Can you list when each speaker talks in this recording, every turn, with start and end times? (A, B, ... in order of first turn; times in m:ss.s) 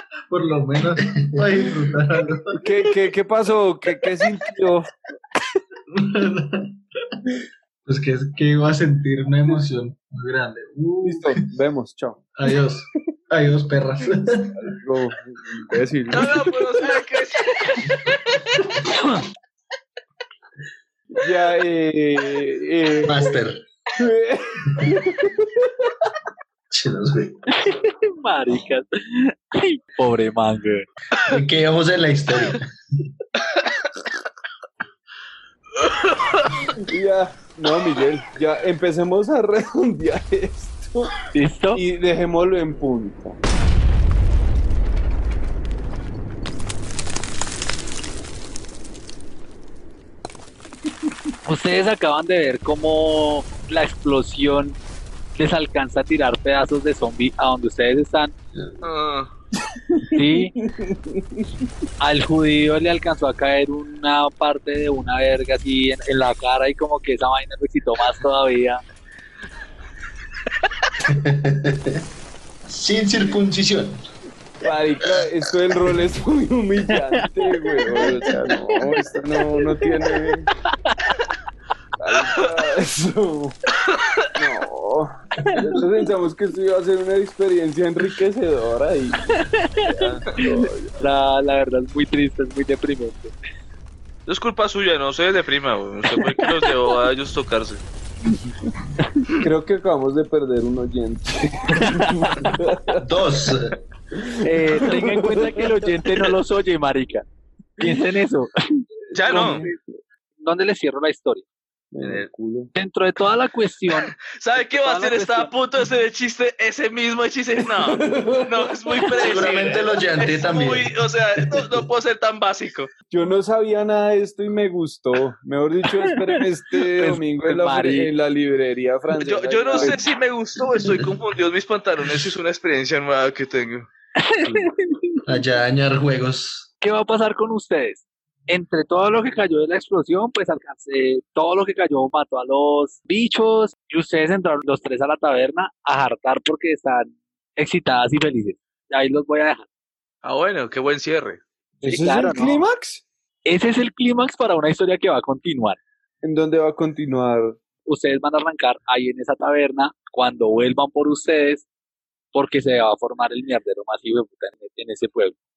0:00.3-0:02.4 A
0:01.2-0:02.4 B
0:02.6-0:04.9 C
0:05.9-0:06.8 A
0:07.9-0:11.5 A
0:11.1-0:12.2 C
0:12.4-0:14.8 A
0:14.8-0:16.5 C
0:16.1-0:18.1 D
0:18.9-0:19.2 E
0:21.2-0:23.4 C
0:23.0-0:23.6 B
0:24.0-0:24.9 C
0:26.7-0:27.4 B
0:27.5-0:30.9 E
0:31.2-0:32.7 B
0:35.8-0:36.7 D
0:36.9-0:41.1 C
0:41.3-0:41.8 E
0:41.8-0:43.4 C
0:51.5-0:54.8 E
0:55.4-0:58.3 E
0:58.8-0:59.3 D
1:00.1-1:00.5 E
1:02.0-1:08.8 E
1:11.1-1:12.0 B
1:12.7-1:14.0 B
1:14.6-1:20.5 C
1:17.1-1:17.9 E
1:20.7-1:21.1 E
1:22.0-1:23.6 C
1:23.9-1:24.2 D
1:24.4-1:29.3 C
1:29.3-1:29.9 E
1:29.9-1:31.0 C
1:30.4-1:33.3 E
1:34.3-1:37.8 D
1:39.4-1:41.9 C
1:41.8-1:42.6 E
1:43.0-1:43.8 B
1:44.4-1:47.2 E
1:44.7-1:45.4 C
1:47.8-1:48.5 E
1:49.1-1:49.6 D
1:49.2-1:49.7 C
1:49.3-1:49.8 E
1:50.4-1:51.5 E
1:52.0-1:52.7 C
1:52.8-1:55.5 E
1:53.9-2:02.9 D
1:57.8-1:58.6 C
1:59.2-2:01.8 B
2:03.1-2:10.0 C
2:06.0-2:06.4 E
2:06.9-2:08.1 E
2:09.2-2:13.9 D
2:10.6-2:11.2 B
2:14.2-2:15.2 E
2:15.3-2:16.7 B
2:16.8-2:29.7 E
2:30.2-2:31.4 D
2:31.8-2:33.0 C
2:31.8-2:32.6 E
2:33.4-2:35.8 E
2:36.2-2:37.6 C
2:37.9-2:41.7 E
2:42.3-2:45.4 E